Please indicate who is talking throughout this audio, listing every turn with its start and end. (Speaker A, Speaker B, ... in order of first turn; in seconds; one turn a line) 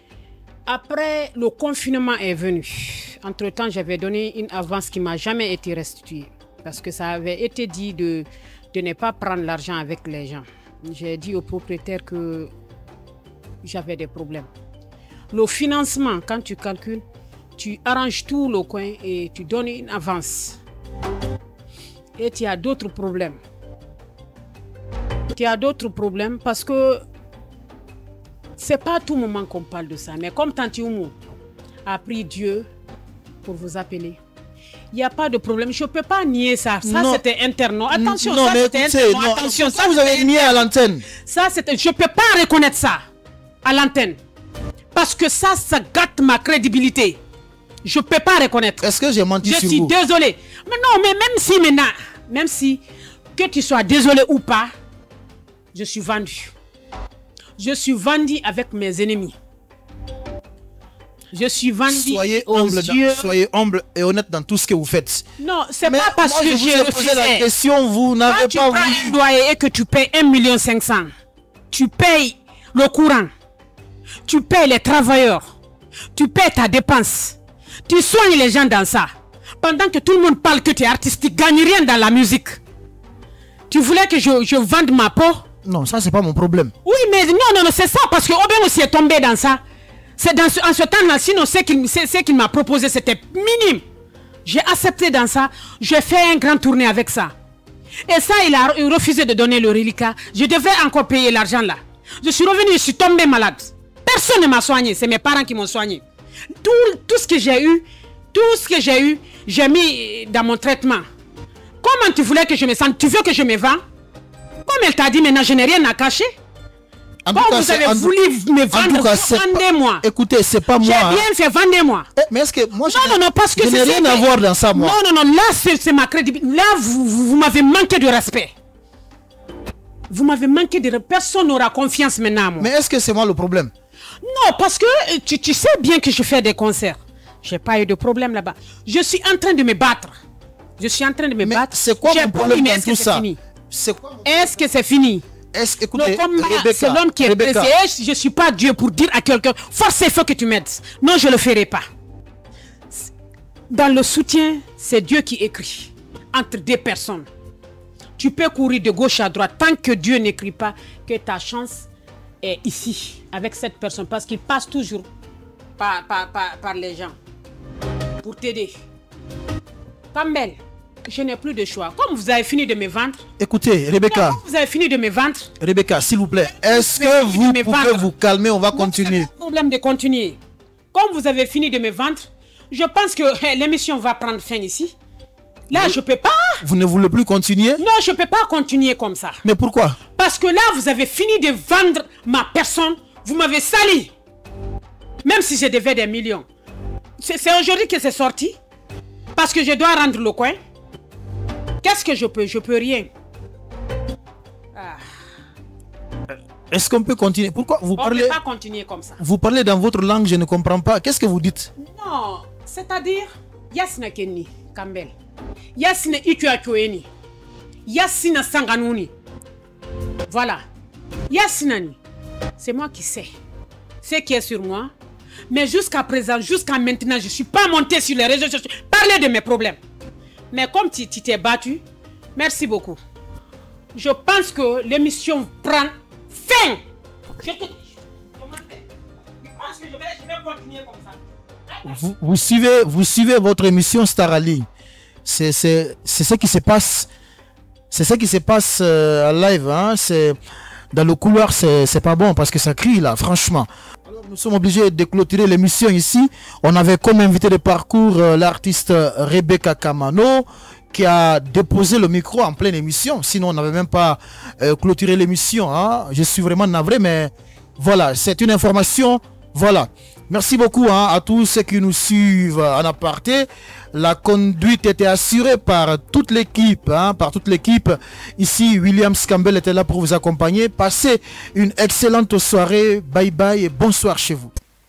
Speaker A: 0.7-12.5
Speaker A: 13.6-14.5
Speaker A: 15.3-17.0
Speaker A: 17.6-20.6
Speaker A: 22.2-23.4
Speaker A: 25.3-27.0
Speaker A: 28.6-31.2
Speaker A: 31.8-32.7
Speaker A: 33.4-34.2
Speaker A: 34.9-43.0
Speaker B: 36.8-37.2
Speaker B: 37.9-41.0
Speaker A: 43.6-44.2
Speaker A: 44.9-47.2
Speaker A: 47.8-48.8
Speaker B: 48.8-49.9
Speaker A: 49.4-52.8
Speaker A: 53.3-54.7
Speaker A: 55.7-56.5
Speaker A: 57.6-59.4
Speaker A: 61.3-63.3
Speaker B: 61.9-65.3
Speaker A: 65.4-67.5
Speaker B: 65.8-69.2
Speaker A: 68.2-71.1
Speaker A: 71.7-73.3
Speaker A: 74.2-75.4
Speaker A: 76.1-82.6
Speaker A: 83.7-85.4
Speaker B: 85.6-86.7
Speaker A: 86.8-89.6
Speaker A: 90.2-93.8
Speaker A: 94.4-97.3
Speaker A: 98.1-106.0
Speaker A: 106.6-111.0
Speaker A: 111.8-113.8
Speaker A: 114.7-116.3
Speaker B: 117.2-118.2
Speaker A: 117.3-120.0
Speaker B: 118.7-121.3
Speaker A: 120.8-122.1
Speaker B: 122.2-125.0
Speaker A: 122.8-128.5
Speaker A: 130.1-132.7
Speaker B: 132.6-133.7
Speaker A: 134.2-140.1
Speaker A: 140.8-143.4
Speaker B: 141.4-144.5
Speaker A: 144.2-145.2
Speaker B: 145.5-147.7
Speaker A: 145.9-151.8
Speaker A: 153.7-157.3
Speaker A: 158.2-161.9
Speaker A: 162.4-165.1
Speaker A: 165.8-167.1
Speaker A: 168.2-168.7
Speaker A: 170.1-173.2
Speaker B: 173.4-174.4
Speaker A: 174.1-175.5
Speaker B: 175.6-179.3
Speaker A: 176.5-178.1
Speaker A: 178.7-180.4
Speaker A: 180.9-184.9
Speaker A: 185.7-186.6
Speaker B: 185.7-186.0
Speaker B: 186.6-187.8
Speaker A: 187.8-189.4
Speaker B: 189.4-190.0
Speaker A: 190.1-194.1
Speaker A: 195.2-196.4
Speaker A: 197.2-198.6
Speaker A: 199.3-200.6
Speaker A: 201.8-203.1
Speaker A: 204.7-205.0
Speaker B: 206.7-208.4
Speaker A: 208.0-209.2
Speaker B: 209.2-211.7
Speaker A: 211.8-215.1
Speaker A: 215.7-217.1
Speaker A: 217.8-219.1
Speaker A: 220.3-220.6
Speaker A: 221.3-222.0
Speaker A: 222.6-223.3
Speaker A: 224.0-224.9
Speaker A: 225.5-229.8
Speaker A: 230.5-231.8
Speaker A: 232.3-233.0
Speaker A: 233.9-236.8
Speaker A: 237.4-238.8
Speaker A: 239.4-241.2
Speaker B: 241.9-244.7
Speaker B: 245.2-247.1
Speaker B: 247.9-250.4
Speaker B: 250.9-284.5